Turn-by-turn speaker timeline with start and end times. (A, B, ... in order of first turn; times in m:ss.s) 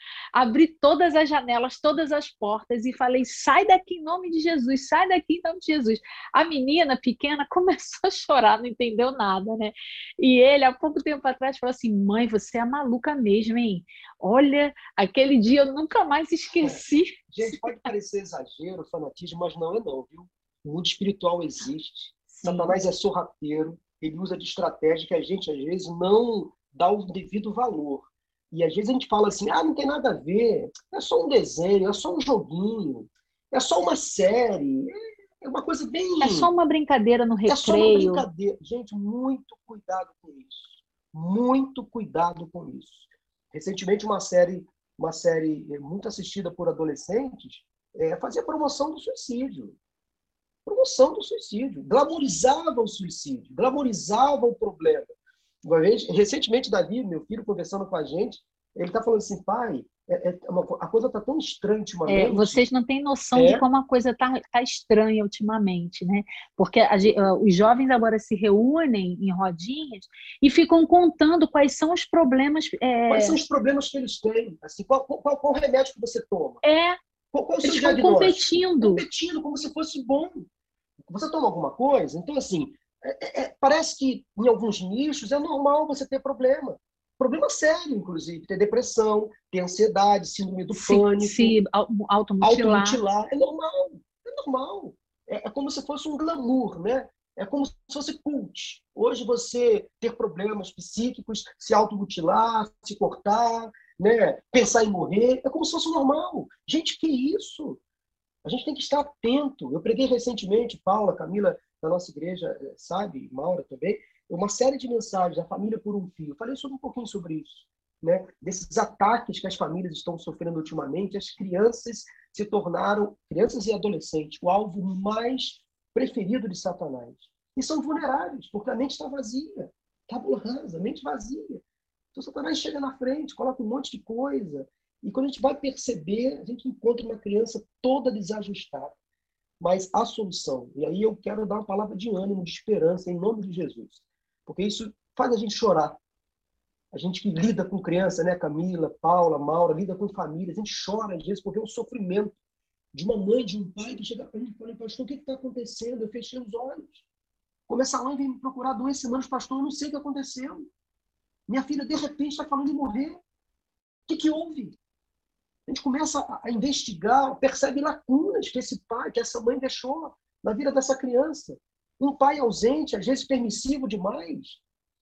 0:00.3-0:17.8 A
0:17.3-0:36.5 B
0:22.3-0:22.7 A
0:36.2-0:38.2 A
0:37.5-0:49.8 B
0:50.6-1:02.6 B
1:02.0-1:13.4 A
1:03.3-1:03.6 B
1:13.1-1:16.6 B
1:16.6-1:17.0 A
1:17.3-1:20.5 B
1:17.6-1:19.0 A
1:21.0-1:31.6 B
1:30.7-1:33.0 A
1:32.4-1:47.8 B
1:48.4-2:11.6 B
2:12.1-2:18.9 B
2:19.6-2:26.0 B
2:26.9-2:32.4 B
2:32.9-2:37.0 B
2:37.7-2:40.7 B
2:41.5-2:43.2 B
2:44.1-2:44.8 B
2:45.7-2:54.6 B